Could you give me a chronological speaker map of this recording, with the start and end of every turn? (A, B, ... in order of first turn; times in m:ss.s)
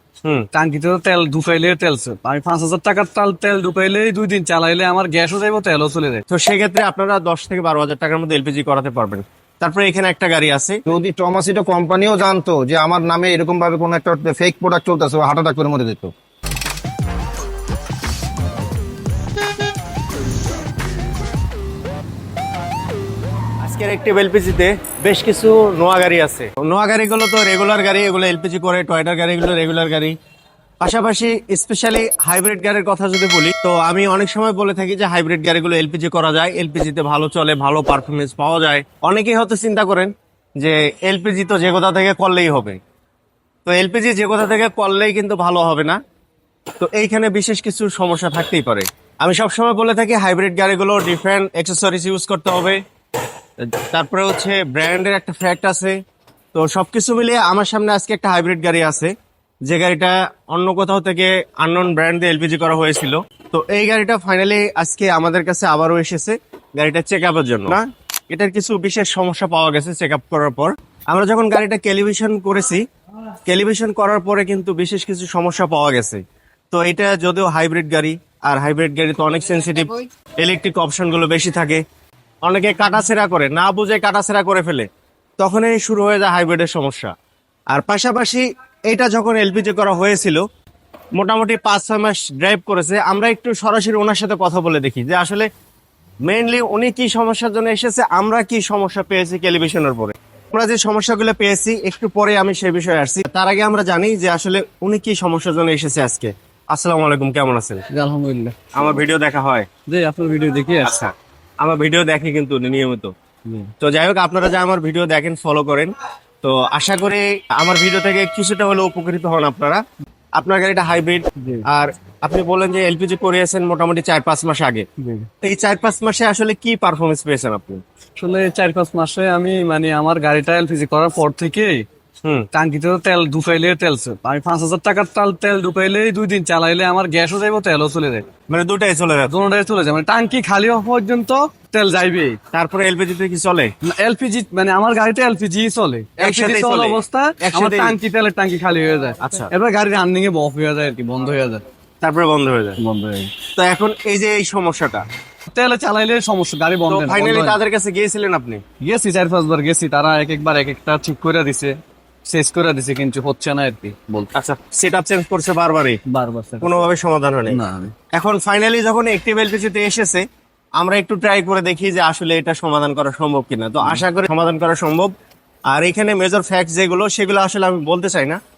0:00.5-0:06.2 A
0:06.3-0:10.8 B
0:10.9-0:16.1 C
0:23.6-0:30.2 B
0:30.8-0:42.8 B
0:43.7-0:46.0 B
0:46.8-0:52.8 B
0:53.9-0:56.0 B
0:56.5-0:59.1 B
0:59.7-1:12.8 B
1:13.5-1:16.2 B
1:16.7-1:21.8 B
1:22.4-1:24.9 B
1:25.4-1:27.1 B
1:27.7-1:30.4 B
1:31.2-1:35.5 B
1:36.2-1:47.8 B
1:47.9-1:48.8 A
1:48.7-1:49.7 B
1:49.9-1:50.9 A
1:50.8-1:53.1 B
1:53.8-1:59.8 B
2:00.4-2:04.9 B
2:05.0-2:05.3 A
2:05.4-2:07.8 B
2:08.2-2:11.8 A
2:12.5-2:18.3 A
2:18.5-2:19.3 B
2:19.3-2:22.4 A
2:22.5-2:23.7 B
2:23.9-2:31.6 A
2:26.2-2:28.0 B
2:29.2-2:29.5 B
2:32.0-2:32.8 B
2:32.8-2:33.3 A
2:33.6-2:35.1 B
2:35.5-2:37.6 A
2:36.9-2:38.6 B
2:38.8-2:41.8 A
2:42.3-2:44.3 A
2:44.4-2:46.0 B
2:46.1-2:46.9 A
2:46.6-2:47.6 B
2:47.5-2:47.9 A
2:48.2-2:50.2 B
2:50.8-2:55.1 B
2:55.7-2:58.4 B